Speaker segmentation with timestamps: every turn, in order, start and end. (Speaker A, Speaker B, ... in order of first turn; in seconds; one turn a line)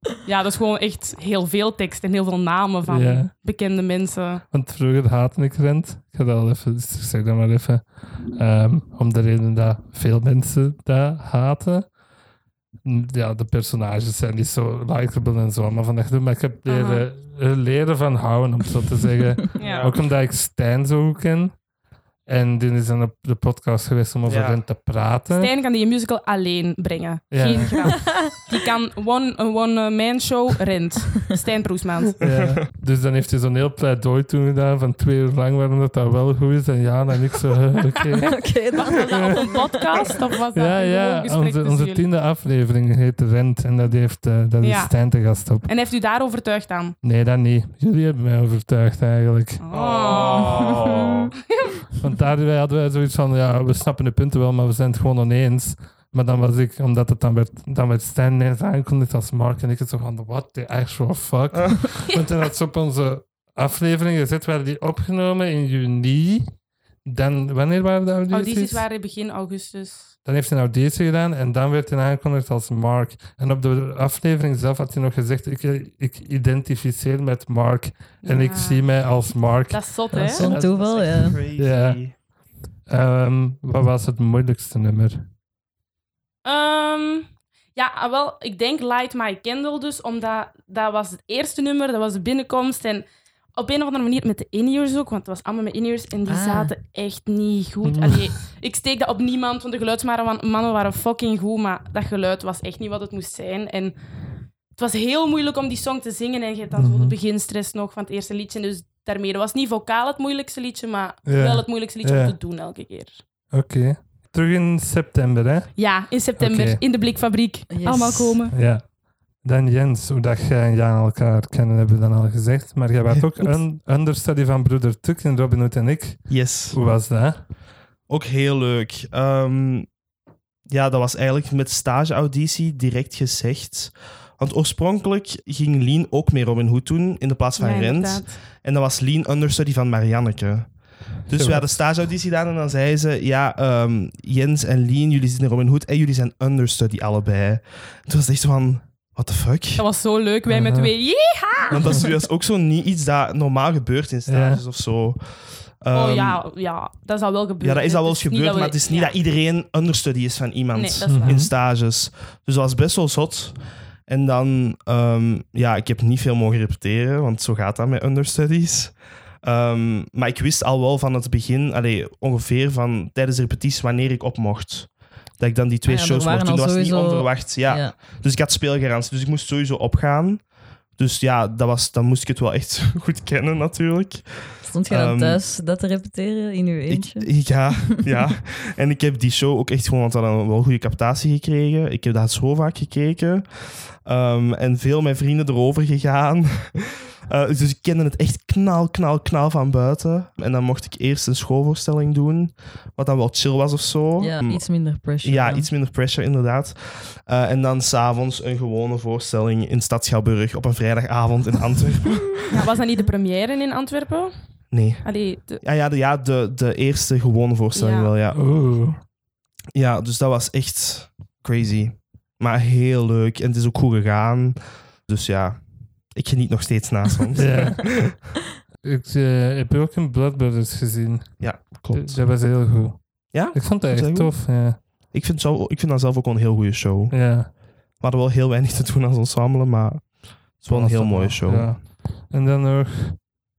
Speaker A: 0.2-4.4
Speaker B: 2.9-3.3
Speaker B: 4.5-11.9
Speaker B: 12.8-21.6
Speaker A: 16.7-17.0
Speaker A: 19.6-19.9
Speaker C: 19.6-20.0
Speaker B: 22.3-25.5
Speaker C: 24.2-24.6
Speaker A: 25.3-32.1
Speaker B: 27.3-28.1
Speaker B: 32.2-39.2
Speaker C: 32.2-32.5
Speaker D: 38.3-39.5
Speaker A: 38.8-42.0
Speaker B: 40.5-45.7
Speaker A: 44.6-44.9
Speaker A: 45.6-47.0
Speaker B: 47.0-49.6
Speaker A: 49.6-50.8
Speaker C: 49.7-51.3
Speaker A: 51.5-51.8
Speaker B: 52.0-66.5
Speaker C: 61.5-61.8
Speaker B: 67.0-68.8
Speaker A: 68.3-70.1
Speaker B: 70.2-79.9
Speaker A: 78.2-78.9
Speaker A: 79.7-80.5
Speaker D: 80.1-81.4
Speaker C: 80.3-82.1
Speaker B: 81.6-82.0
Speaker B: 82.9-85.3
Speaker A: 86.4-104.0
Speaker D: 96.3-96.7
Speaker B: 97.9-98.3
Speaker A: 104.7-113.2
Speaker B: 106.8-107.1
Speaker B: 111.2-112.3
Speaker B: 113.5-115.8
Speaker A: 115.8-118.5
Speaker B: 116.4-116.8
Speaker D: 117.7-118.4
Speaker B: 118.5-118.9
Speaker B: 119.4-127.4
Speaker C: 123.1-123.4
Speaker C: 126.3-126.8
Speaker C: 128.1-129.9
Speaker C: 130.7-140.7
Speaker A: 137.6-138.4
Speaker C: 141.3-149.8
Speaker B: 141.3-141.7
Speaker A: 149.8-152.1
Speaker B: 150.5-150.9
Speaker C: 151.7-155.2
Speaker B: 154.3-154.6
Speaker C: 155.8-156.4
Speaker A: 155.9-159.1
Speaker C: 157.6-180.4
Speaker A: 160.7-161.4
Speaker B: 161.1-161.5
Speaker D: 175.9-177.9
Speaker C: 181.0-185.4
Speaker D: 184.6-187.5
Speaker C: 186.9-204.6
Speaker D: 204.2-205.7
Speaker C: 205.2-212.4
Speaker A: 212.5-214.3
Speaker C: 214.7-215.0
Speaker A: 215.0-215.6
Speaker C: 215.6-218.4
Speaker A: 217.8-218.1
Speaker B: 218.3-219.0
Speaker C: 219.8-228.1
Speaker B: 227.3-228.1
Speaker B: 228.8-234.8
Speaker C: 231.4-232.2
Speaker C: 233.3-241.8
Speaker B: 237.1-237.5
Speaker B: 240.7-243.2